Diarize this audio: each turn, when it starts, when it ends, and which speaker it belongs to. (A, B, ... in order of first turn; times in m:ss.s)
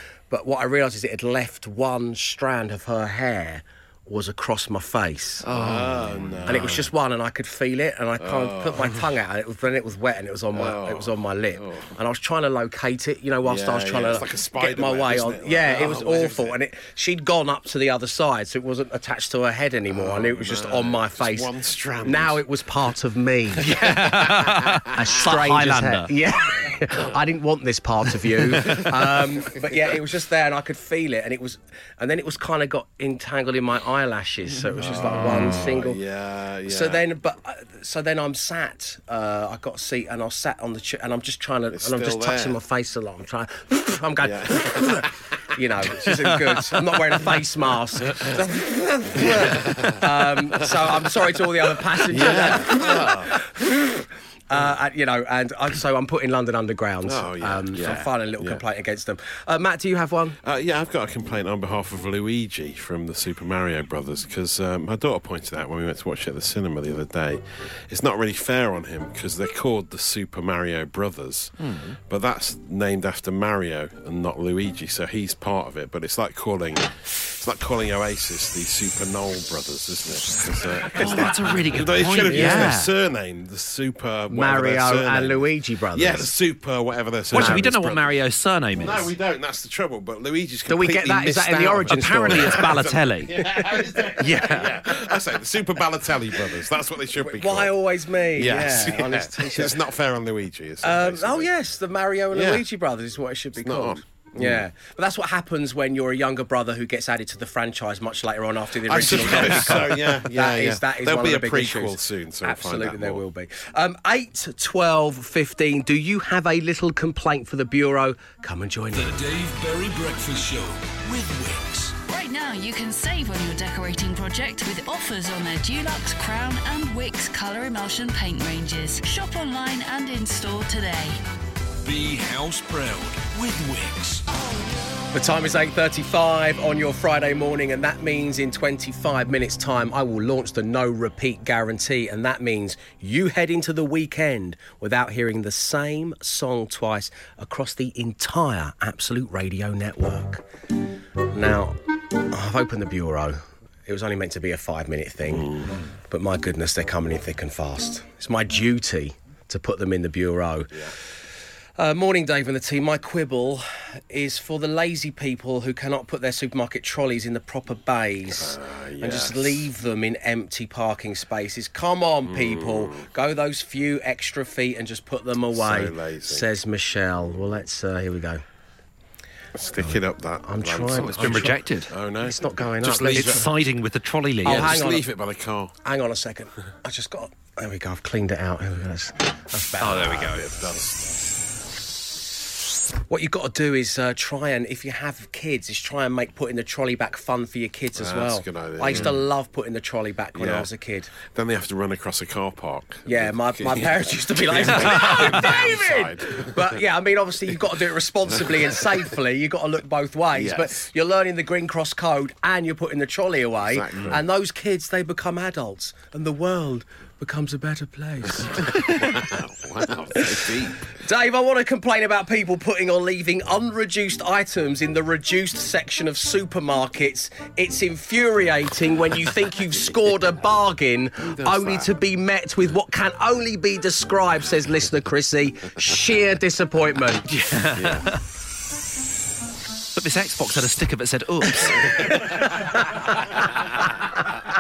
0:00.3-0:05.5 A
0:05.4-0:06.9 B
0:05.5-0:06.9 C
0:06.5-0:21.5 A
0:08.2-0:09.1 C
0:10.5-0:12.0 C
0:13.4-0:16.6 C
0:19.9-0:22.4 C
0:22.0-0:36.0 A
0:23.6-0:26.1 B
0:23.7-0:24.0 C
0:28.5-0:30.0 C
0:34.8-0:37.0 C
0:36.7-1:00.4 A
0:41.7-0:42.6 C
0:44.2-0:45.1 C
0:48.1-0:48.4 C
0:49.2-0:51.2 C
0:52.1-0:53.4 C
0:57.0-0:58.6 C
1:00.4-1:28.2 C
1:11.6-1:12.0 B
1:21.0-1:22.9 B
1:22.2-1:22.7 A
1:24.3-1:26.3 A
1:27.3-1:29.1 B
1:27.3-1:27.7 A
1:28.8-1:37.8 C
1:30.7-1:32.8 A
1:31.2-1:33.5 B
1:34.2-1:34.8 B
1:37.2-1:39.8 A
1:38.3-1:41.5 C
1:40.8-1:59.2 A
1:42.3-1:42.6 C
1:43.6-1:44.7 C
1:48.8-1:53.2 C
1:58.9-2:02.0 D
2:02.1-2:11.2 E
2:11.8-2:14.2 D
2:15.1-2:30.4 A
2:31.3-2:31.8 A
2:32.3-2:35.6 A
2:35.3-2:35.8 C
2:36.1-2:40.9 A
2:41.8-2:58.4 A
2:48.3-2:49.7 C
2:52.2-2:53.1 C
2:55.5-2:56.5 C
2:59.6-3:03.5 C
2:59.8-3:01.6 A
3:01.0-3:01.9 B
3:02.2-3:03.5 A
3:03.1-3:04.8 B
3:04.4-3:05.1 A
3:04.4-3:05.8 C
3:05.8-3:11.0 A
3:09.8-3:10.5 B
3:10.0-3:10.9 C
3:13.1-3:21.1 A
3:18.0-3:19.3 C
3:20.4-3:20.7 C
3:21.3-3:26.9 C
3:23.1-3:38.9 A
3:28.4-3:29.0 C
3:30.3-3:30.9 C
3:33.6-3:34.2 C
3:38.4-3:41.0 C
3:40.2-3:57.3 A
3:51.2-3:51.9 C
3:57.3-3:58.2 B
3:57.7-3:58.1 C
4:00.0-4:02.1 B
4:01.6-4:04.3 A